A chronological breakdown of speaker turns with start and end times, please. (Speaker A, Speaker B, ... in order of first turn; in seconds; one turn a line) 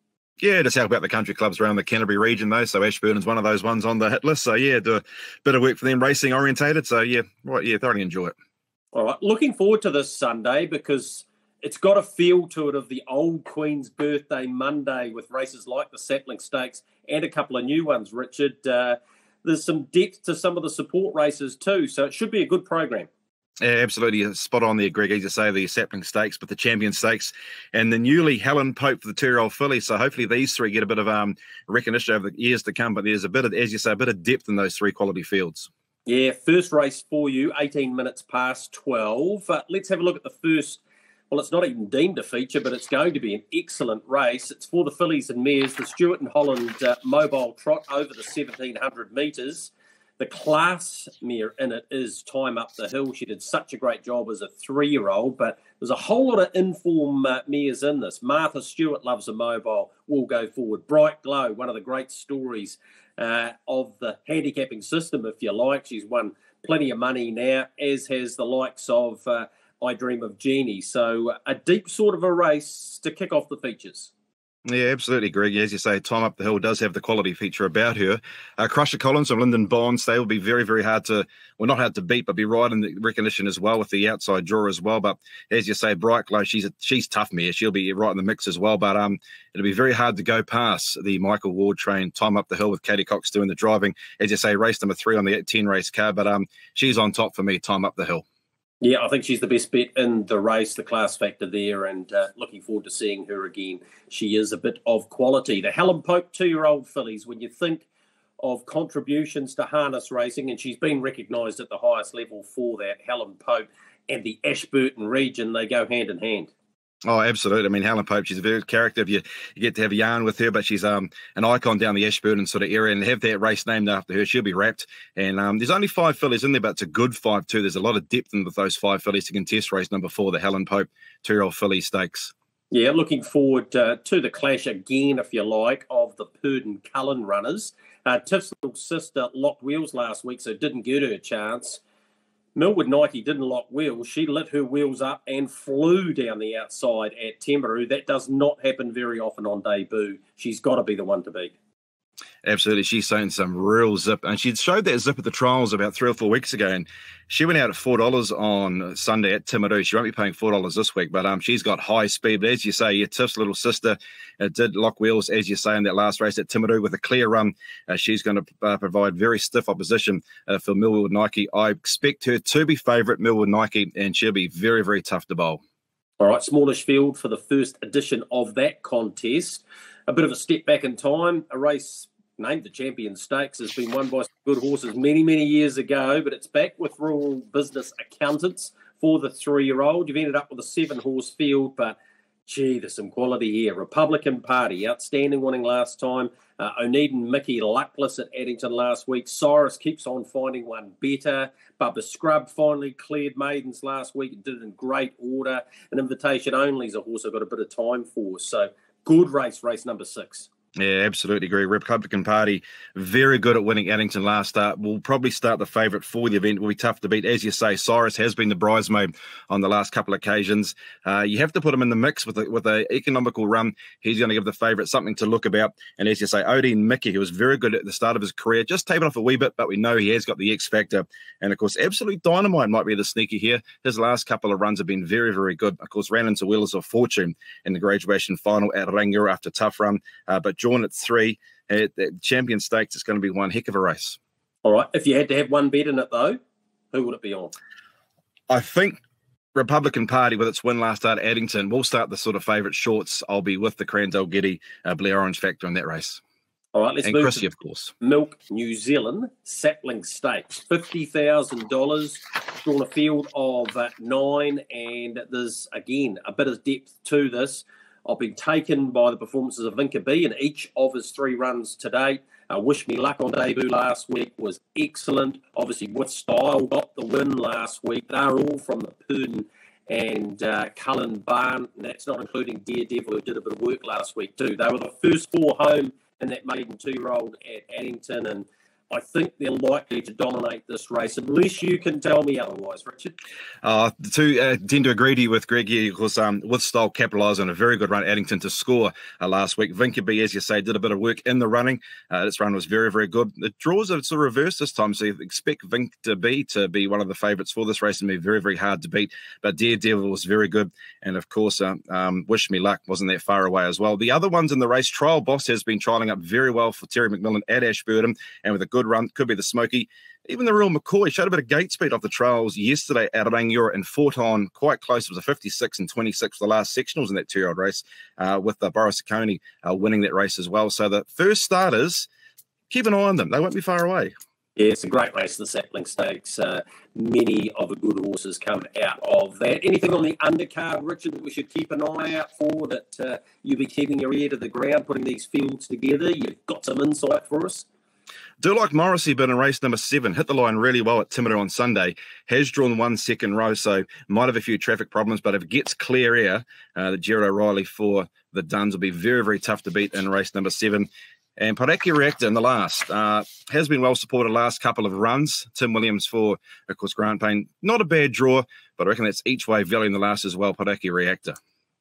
Speaker A: 0.4-8.3
Speaker B: 8.9-23.1
Speaker A: 23.6-35.7
Speaker B: 36.0-74.1
Speaker A: 74.7-98.2
Speaker B: 98.8-107.8
Speaker B: 108.4-116.5
Speaker A: 117.1-132.3
Speaker B: 132.7-141.8
Speaker B: 142.6-151.5
Speaker A: 152.4-175.6
Speaker B: 176.2-210.5
Speaker A: 210.8-244.2
Speaker B: 244.6-246.4
Speaker B: 246.9-247.5
Speaker A: 248.5-249.0
Speaker A: 249.5-256.2
Speaker B: 256.7-257.5
Speaker A: 257.0-257.9
Speaker B: 258.0-293.1
Speaker A: 293.6-332.1
Speaker A: 332.7-334.1
Speaker B: 334.6-347.6
Speaker A: 348.4-371.4